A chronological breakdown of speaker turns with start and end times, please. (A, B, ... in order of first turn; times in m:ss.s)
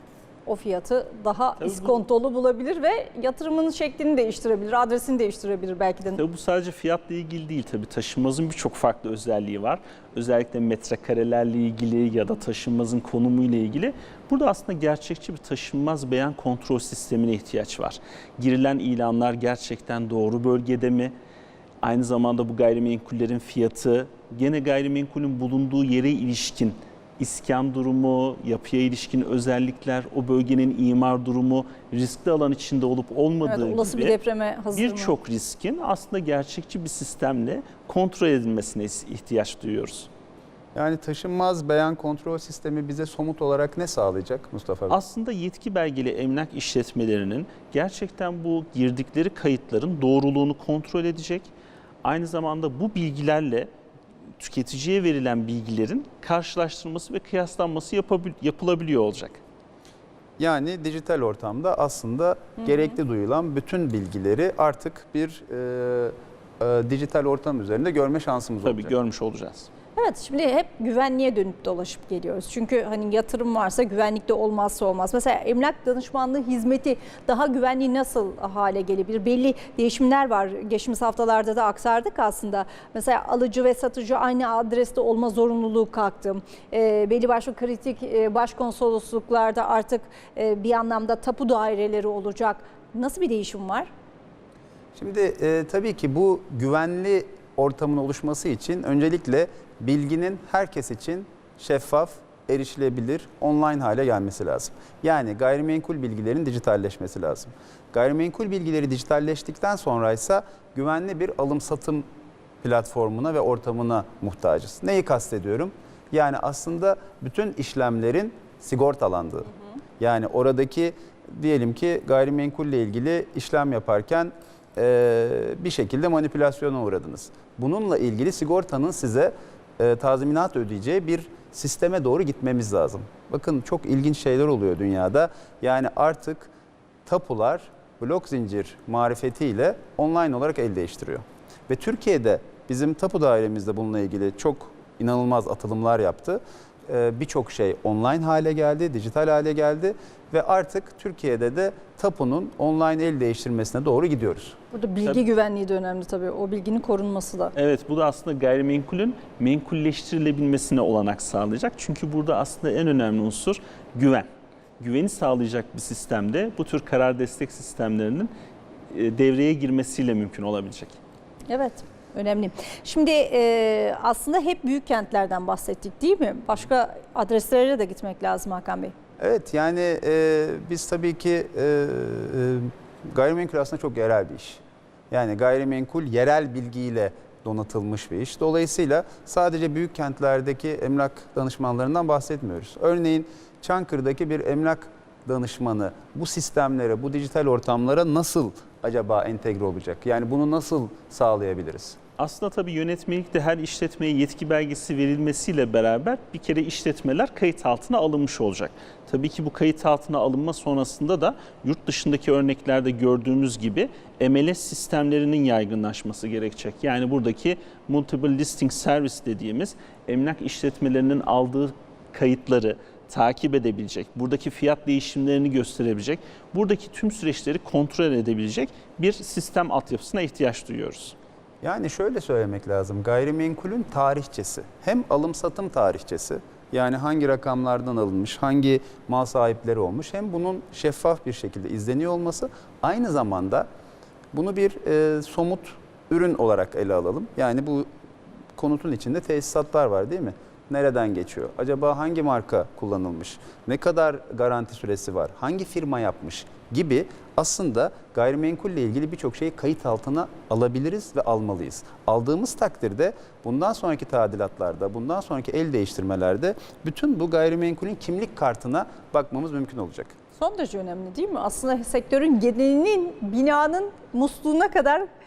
0:00.5-0:06.2 A
0:01.6-0:02.0 B
0:06.2-0:21.1 B
0:21.8-0:34.2 B
0:33.4-0:35.1 A
0:34.8-0:40.1 B
0:40.8-0:45.0 C
0:44.9-0:51.5 B
0:52.0-0:53.7 B
0:54.4-0:59.4 B
1:00.4-1:08.9 C
1:08.6-1:09.7 B
1:10.0-1:33.9 A
1:35.0-1:52.1 C
1:52.6-2:16.5 C
2:17.1-2:34.6 C
2:34.7-2:37.5 A
2:37.6-2:44.3 B
2:44.8-2:48.3 B
2:48.9-2:51.0 B
2:51.5-2:59.0 A
2:59.2-3:22.0 C
3:22.2-3:51.2 B
3:51.6-4:03.7 C
4:04.3-4:07.9 C
4:08.6-4:30.1 C
4:30.4-4:35.1 A